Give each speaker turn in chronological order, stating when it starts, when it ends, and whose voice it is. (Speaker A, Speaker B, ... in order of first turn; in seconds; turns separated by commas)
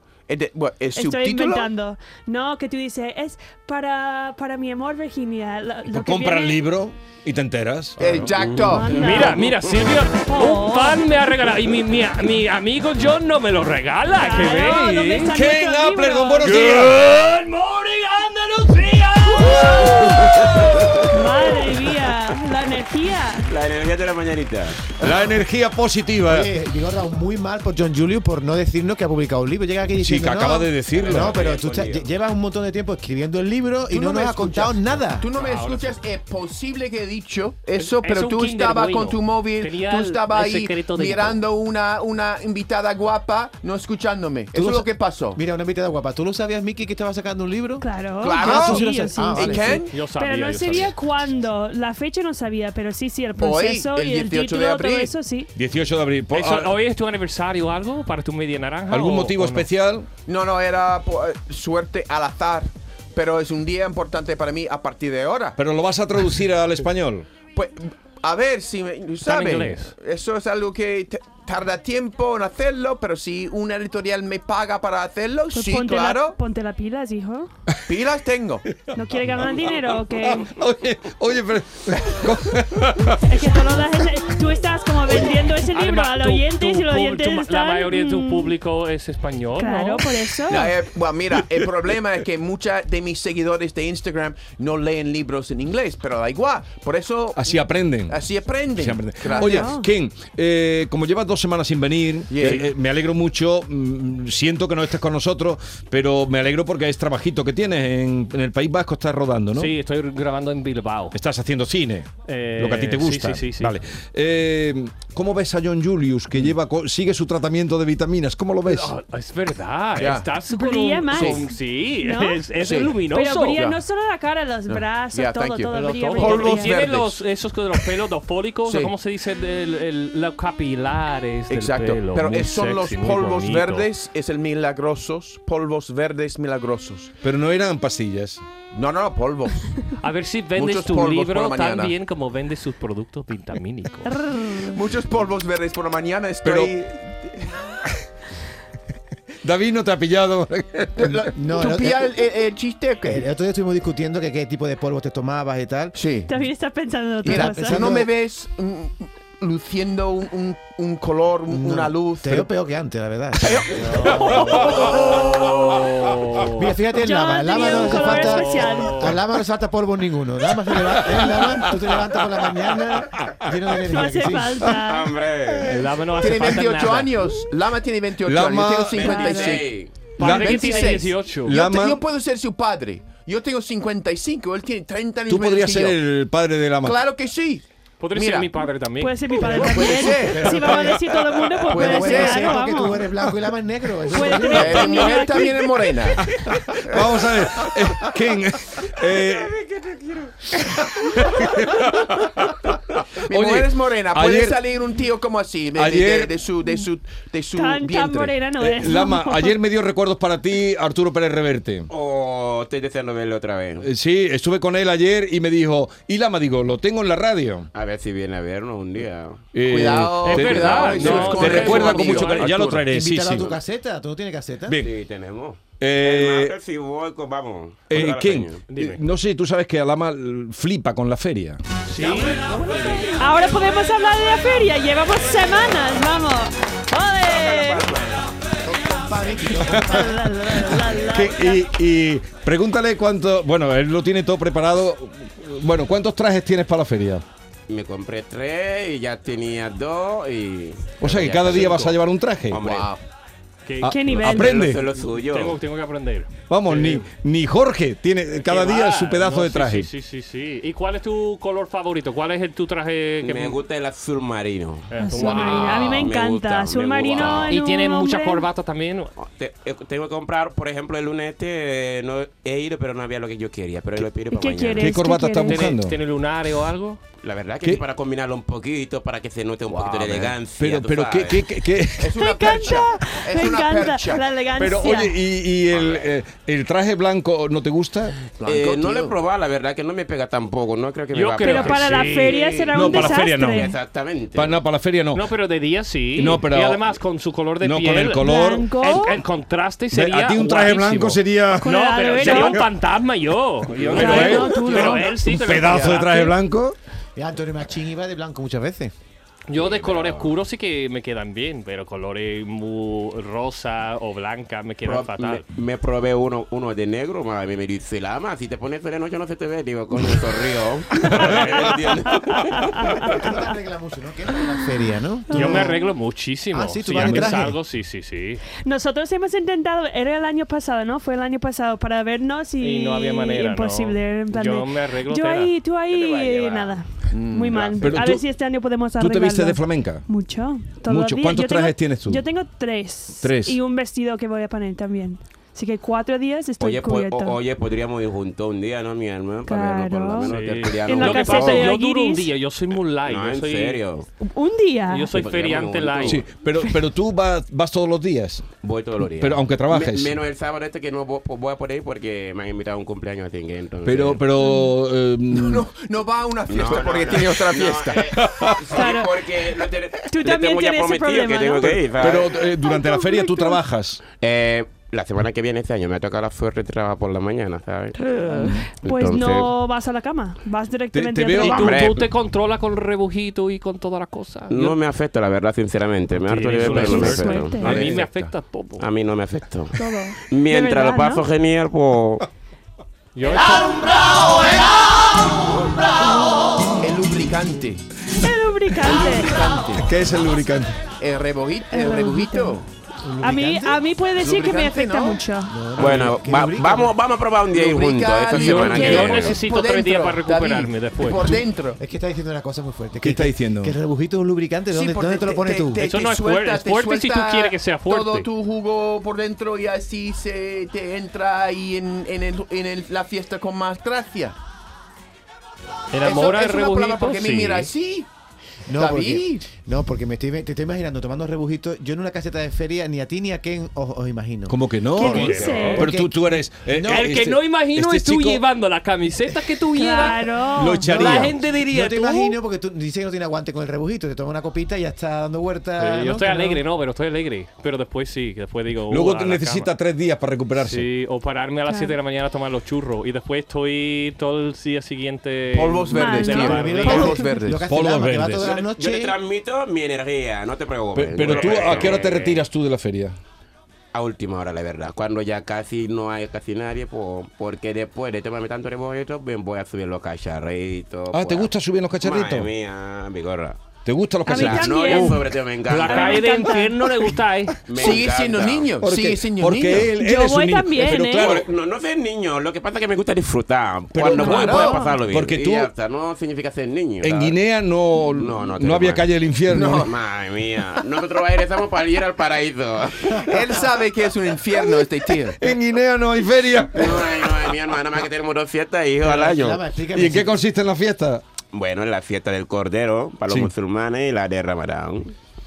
Speaker A: 0.3-1.7, Speaker B: 0.9-6.7, Speaker C: 5.9-8.0, Speaker A: 8.0-9.1, Speaker D: 8.3-9.9, Speaker B: 8.5-9.5, Speaker E: 8.9-15.3, Speaker B: 10.2-11.2, Speaker B: 14.1-16.9, Speaker C: 15.3-17.8, Speaker E: 16.5-16.9, Speaker C: 18.7-21.1, Speaker B: 19.4-20.1, Speaker B: 21.1-23.5, Speaker D: 23.5-24.9, Speaker C: 25.0-26.5, Speaker A: 25.0-25.3, Speaker F: 26.3-35.3, Speaker C: 30.0-31.4, Speaker D: 30.9-32.1, Speaker A: 33.9-45.4, Speaker E: 35.3-36.0, Speaker E: 37.8-41.4, Speaker F: 44.5-49.9, Speaker B: 47.8-55.5, Speaker A: 48.2-50.0, Speaker E: 49.9-51.0, Speaker A: 53.4-55.1, Speaker C: 55.5-56.7, Speaker E: 56.3-59.7, Speaker C: 58.9-60.1, Speaker A: 60.3-65.6, Speaker C: 65.6-67.3, Speaker A: 67.5-76.4, Speaker E: 69.2-69.9, Speaker B: 75.5-77.5, Speaker A: 77.9-78.7, Speaker C: 78.7-83.4, Speaker B: 78.9-80.5, Speaker B: 83.2-88.5, Speaker E: 85.7-90.1, Speaker B: 89.5-90.8, Speaker A: 90.5-99.8, Speaker C: 97.4-98.2, Speaker C: 98.8-109.7, Speaker B: 99.2-99.9, Speaker A: 102.3-102.7, Speaker E: 109.5-111.2, Speaker C: 111.1-118.9, Speaker E: 112.2-113.8, Speaker E: 118.7-123.7, Speaker A: 120.0-120.3, Speaker B: 120.5-121.5, Speaker A: 121.1-121.4, Speaker B: 122.0-122.5, Speaker A: 122.6-123.0, Speaker B: 123.1-126.8, Speaker A: 124.7-127.2, Speaker E: 125.7-133.9, Speaker A: 128.7-128.9, Speaker A: 131.5-137.1, Speaker C: 137.2-138.4, Speaker A: 138.7-139.8, Speaker E: 140.0-144.1, Speaker A: 140.6-141.9, Speaker B: 144.1-144.8, Speaker A: 144.6-146.9, Speaker C: 146.4-146.9, Speaker C: 149.4-151.3, Speaker A: 151.0-153.2, Speaker F: 151.3-152.1, Speaker F: 153.0-156.0, Speaker A: 155.9-156.3, Speaker B: 156.3-157.9, Speaker F: 157.2-158.1, Speaker A: 157.2-162.5, Speaker F: 161.5-163.9, Speaker A: 163.4-165.8, Speaker E: 163.9-166.7, Speaker F: 166.6-174.8, Speaker B: 167.0-169.2, Speaker E: 167.7-169.2, Speaker C: 170.9-171.8, Speaker B: 173.9-175.2, Speaker D: 174.8-175.7, Speaker E: 175.7-177.3, Speaker A: 176.2-186.0, Speaker C: 178.2-179.3, Speaker D: 178.9-180.0, Speaker B: 179.0-179.6, Speaker E: 180.2-181.6, Speaker C: 180.2-182.0, Speaker C: 185.3-187.0, Speaker A: 186.8-188.5, Speaker E: 188.0-189.2, Speaker B: 189.0-193.1, Speaker A: 189.4-191.0, Speaker F: 190.2-190.9, Speaker A: 191.7-192.6, Speaker F: 191.7-195.0, Speaker B: 194.1-195.9, Speaker A: 194.5-196.3, Speaker C: 196.2-199.7, Speaker C: 200.5-204.6, Speaker A: 203.3-208.5, Speaker C: 205.8-206.4, Speaker B: 207.5-209.6, Speaker C: 208.6-211.9, Speaker D: 211.9-213.9, Speaker C: 213.8-217.7, Speaker D: 217.7-219.9, Speaker C: 219.5-223.5, Speaker A: 219.6-222.9, Speaker E: 220.2-222.5, Speaker D: 221.1-221.9, Speaker F: 222.9-224.8, Speaker D: 224.8-229.0, Speaker C: 225.8-226.5, Speaker C: 227.9-231.6, Speaker E: 228.7-229.0, Speaker E: 231.9-233.2, Speaker B: 233.1-238.0, Speaker D: 237.2-238.3, Speaker F: 238.7-240.3, Speaker B: 239.9-241.7, Speaker C: 241.0-247.2, Speaker D: 247.7-252.0, Speaker C: 251.0-252.6, Speaker D: 252.5-252.9, Speaker A: 252.6-253.0, Speaker E: 253.7-257.1, Speaker C: 253.8-254.8, Speaker B: 253.9-254.5, Speaker D: 254.2-255.6, Speaker C: 256.5-259.9, Speaker E: 258.4-263.6, Speaker D: 263.2-267.5, Speaker E: 264.9-265.7, Speaker B: 265.0-268.5, Speaker A: 265.2-266.0, Speaker A: 267.1-267.4, Speaker E: 267.5-269.1, Speaker D: 269.2-275.0, Speaker B: 274.3-275.7, Speaker C: 274.8-276.0, Speaker E: 275.5-277.0, Speaker D: 277.2-281.4, Speaker A: 279.8-280.3, Speaker C: 280.6-282.1, Speaker A: 282.0-284.4, Speaker B: 282.1-285.2, Speaker C: 284.6-288.2, Speaker D: 285.7-286.1, Speaker A: 288.4-289.2, Speaker D: 288.4-294.6, Speaker E: 291.1-292.4, Speaker B: 291.4-293.7, Speaker C: 292.7-293.7, Speaker C: 294.4-295.3, Speaker E: 295.1-306.4, Speaker C: 296.2-296.9, Speaker C: 297.6-298.7, Speaker B: 298.1-299.2, Speaker C: 299.9-302.7, Speaker B: 301.6-302.7, Speaker C: 303.8-306.8, Speaker B: 303.9-305.1, Speaker A: 304.1-306.0, Speaker F: 307.2-308.9, Speaker E: 309.5-315.4, Speaker D: 309.5-310.4, Speaker D: 314.9-323.2, Speaker C: 321.1-321.6, Speaker B: 321.2-323.6, Speaker F: 323.0-325.7, Speaker B: 324.4-324.8, Speaker B: 325.3-325.9, Speaker E: 325.3-328.4, Speaker F: 326.5-327.6, Speaker C: 327.0-327.5, Speaker B: 328.6-347.4, Speaker E: 332.6-335.5, Speaker D: 335.9-336.8, Speaker A: 337.1-338.0, Speaker C: 337.8-338.3, Speaker C: 339.0-340.1, Speaker C: 340.9-342.3, Speaker C: 343.2-343.6, Speaker D: 346.6-351.7, Speaker B: 349.5-352.3, Speaker E: 350.2-353.8, Speaker D: 353.1-354.1, Speaker B: 354.2-355.1, Speaker E: 354.9-356.2, Speaker D: 355.1-356.2, Speaker C: 356.1-358.5, Speaker B: 356.6-356.9, Speaker D: 358.6-364.2, Speaker C: 359.1-360.1, Speaker C: 363.9-365.7, Speaker B: 364.4-364.7, Speaker A: 365.3-368.3, Speaker D: 366.5-372.4, Speaker C: 368.0-368.6, Speaker B: 368.7-369.3, Speaker B: 370.1-371.9, Speaker C: 371.7-374.0, Speaker B: 372.5-373.6, Speaker D: 374.2-378.2, Speaker B: 378.0-381.8, Speaker C: 378.3-378.7, Speaker D: 378.8-379.5, Speaker C: 380.9-381.8, Speaker E: 381.4-384.8, Speaker D: 381.4-382.1, Speaker D: 384.5-388.0, Speaker E: 386.2-388.9, Speaker B: 386.7-387.9, Speaker A: 386.7-387.1, Speaker A: 387.6-388.3, Speaker D: 388.8-392.3, Speaker B: 389.8-391.2, Speaker E: 393.1-394.0, Speaker B: 396.0-396.6, Speaker A: 396.8-397.9, Speaker B: 398.2-399.5, Speaker A: 398.8-399.9, Speaker C: 399.8-400.8, Speaker A: 401.0-402.6, Speaker B: 401.7-402.6, Speaker F: 403.0-403.8, Speaker B: 403.2-405.6, Speaker A: 404.2-405.3, Speaker F: 405.5-406.9, Speaker D: 405.8-409.4, Speaker A: 407.5-411.8, Speaker E: 408.3-411.3, Speaker B: 408.7-409.1, Speaker F: 411.8-415.9, Speaker C: 413.0-413.7, Speaker A: 414.7-424.4, Speaker E: 415.8-418.3, Speaker E: 425.9-427.7, Speaker A: 426.0-428.1, Speaker F: 428.7-437.1, Speaker A: 428.7-429.4, Speaker C: 434.5-438.4, Speaker B: 434.9-435.9, Speaker E: 435.0-435.8, Speaker E: 436.9-442.4, Speaker B: 439.7-441.0, Speaker C: 440.6-441.3, Speaker F: 440.9-446.6, Speaker E: 445.8-449.7, Speaker C: 448.9-450.9, Speaker E: 450.6-457.1, Speaker B: 451.7-452.0, Speaker A: 455.5-457.6, Speaker B: 455.9-457.3, Speaker F: 456.5-459.2, Speaker C: 457.6-458.5, Speaker D: 458.4-462.4, Speaker C: 460.9-463.1, Speaker D: 463.9-473.6, Speaker C: 471.1-472.5, Speaker C: 473.9-475.1, Speaker B: 474.2-476.8, Speaker D: 474.3-476.4, Speaker E: 475.7-477.6, Speaker D: 477.7-478.7, Speaker A: 477.8-480.0, Speaker C: 478.8-481.5, Speaker B: 479.9-481.4, Speaker D: 481.0-487.4, Speaker C: 483.9-485.7, Speaker B: 484.1-485.0, Speaker C: 487.0-489.9, Speaker D: 488.0-489.1, Speaker A: 489.5-489.9, Speaker D: 489.7-493.3, Speaker A: 493.2-495.4, Speaker C: 495.4-497.3, Speaker D: 496.7-499.6, Speaker F: 499.0-500.3, Speaker C: 499.9-501.2, Speaker D: 501.5-505.1